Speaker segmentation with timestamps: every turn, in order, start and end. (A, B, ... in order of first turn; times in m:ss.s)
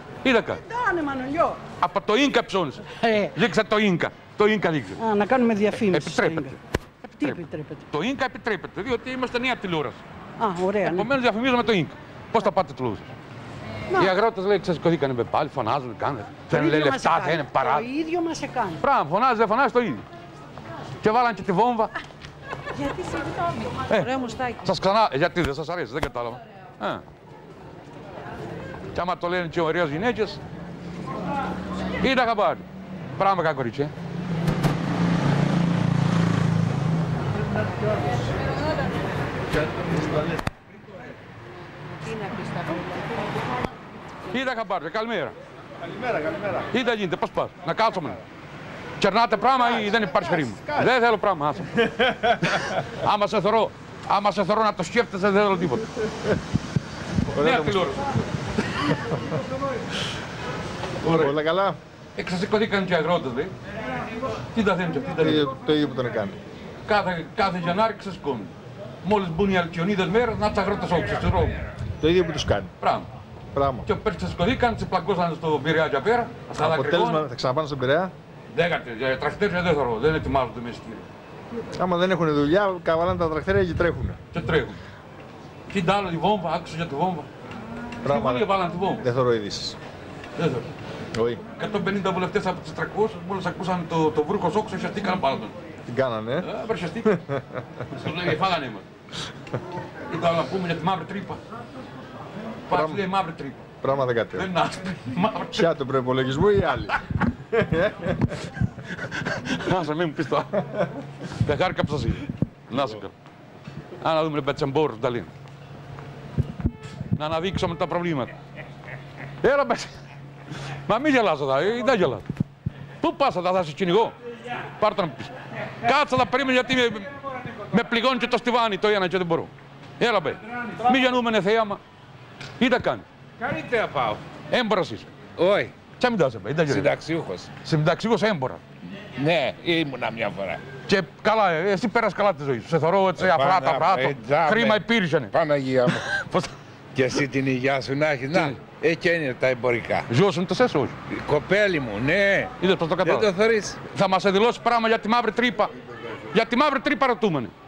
0:00.2-0:00.6 A
0:00.6-0:01.6 B
0:01.8-0:05.0 A
0:02.9-0:03.4 B
0:05.0-0:06.6 B
0:05.7-0:06.6 A
0:07.1-0:07.8 B
0:07.9-0:10.0 A
0:10.4-0:11.1 B
0:10.8-0:13.1 A
0:14.0-0:17.9 A
0:16.5-0:18.8 B
0:18.8-0:20.0 A
0:21.0-0:21.9 A
0:23.3-0:23.7 C
0:23.9-0:27.0 A
0:24.2-0:24.6 C
0:28.9-0:30.4 A
0:32.0-0:32.6 A
0:33.2-0:33.9 A
0:41.9-0:43.2 C
0:44.3-0:45.3 A
0:45.9-0:46.6 D
0:46.7-0:48.2 A
0:49.0-0:56.0 A
0:57.3-0:58.0 A
0:57.3-0:57.9 D
1:01.0-1:01.4 A
1:01.1-1:01.8 D
1:02.2-1:03.5 A
1:04.5-1:05.5 A
1:05.2-1:06.4 D
1:06.8-1:08.5 A
1:09.0-1:11.6 A
1:12.0-1:12.7 D
1:12.8-1:13.1 A
1:13.5-1:13.9 D
1:13.8-1:17.2 A
1:16.6-1:18.1 D
1:18.5-1:21.0 A
1:21.8-1:24.2 D
1:24.3-1:24.8 A
1:25.7-1:27.3 A
1:28.0-1:28.4 D
1:28.0-1:29.0 A
1:29.0-1:29.8 D
1:30.4-1:30.7 A
1:31.1-1:31.4 D
1:31.6-1:35.5 A
1:35.9-1:36.5 D
1:36.4-1:37.2 A
1:37.0-1:37.6 D
1:37.9-1:38.8 A
1:40.1-1:41.4 A
1:42.7-1:43.6 A
1:42.7-1:43.0 D
1:43.8-1:44.5 D
1:44.3-1:45.7 A
1:45.5-1:47.0 D
1:47.5-1:48.3 D
1:48.9-1:50.8 A
1:51.3-1:53.1 A
1:54.0-1:55.3 A
1:57.2-1:58.3 A
1:59.4-2:00.0 A
2:00.8-2:02.2 A
2:03.0-2:11.8 A
2:12.6-2:13.0 A
2:13.4-2:14.2 E
2:14.5-2:15.1 A
2:15.4-2:15.7 E
2:15.9-2:17.0 A
2:16.7-2:17.5 E
2:17.6-2:18.6 A
2:19.1-2:20.6 E
2:20.9-2:25.4 A
2:23.2-2:26.1 E
2:25.9-2:26.5 A
2:26.9-2:30.1 E
2:28.3-2:28.6 A
2:30.1-2:30.9 A
2:31.1-2:33.8 E
2:32.6-2:33.3 A
2:33.9-2:35.7 A
2:36.3-2:37.5 A